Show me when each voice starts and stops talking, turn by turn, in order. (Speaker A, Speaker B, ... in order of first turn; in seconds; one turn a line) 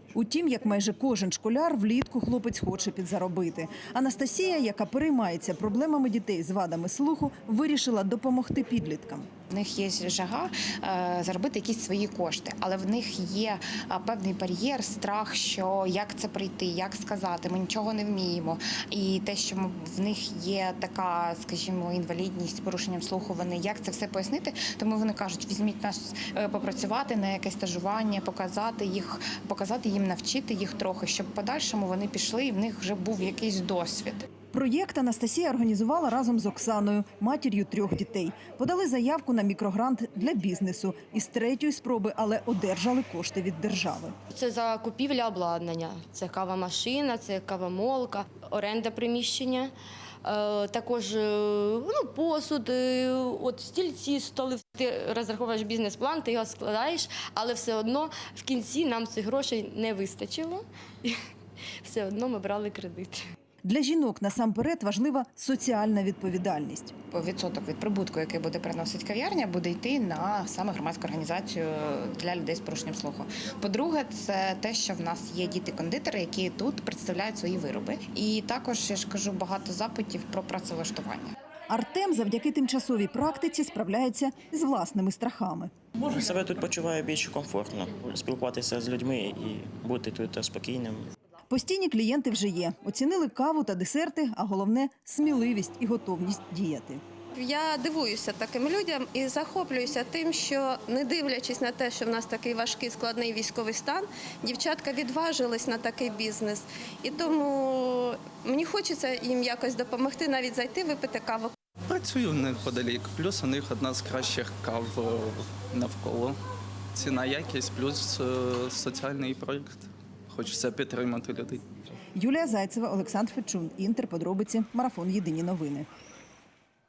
Speaker A: 0.1-9.3
Speaker B: 9.5-34.3
Speaker A: 34.5-44.2
Speaker C: 44.4-49.7
Speaker C: 50.3-61.1
Speaker C: 61.9-63.2
Speaker A: 63.6-66.9
Speaker B: 67.1-81.3
Speaker A: 81.7-85.7
Speaker D: 86.0-91.1
Speaker A: 91.5-97.0
Speaker E: 97.3-111.5
Speaker F: 111.9-116.4
Speaker F: 116.9-121.6
Speaker A: 122.1-125.9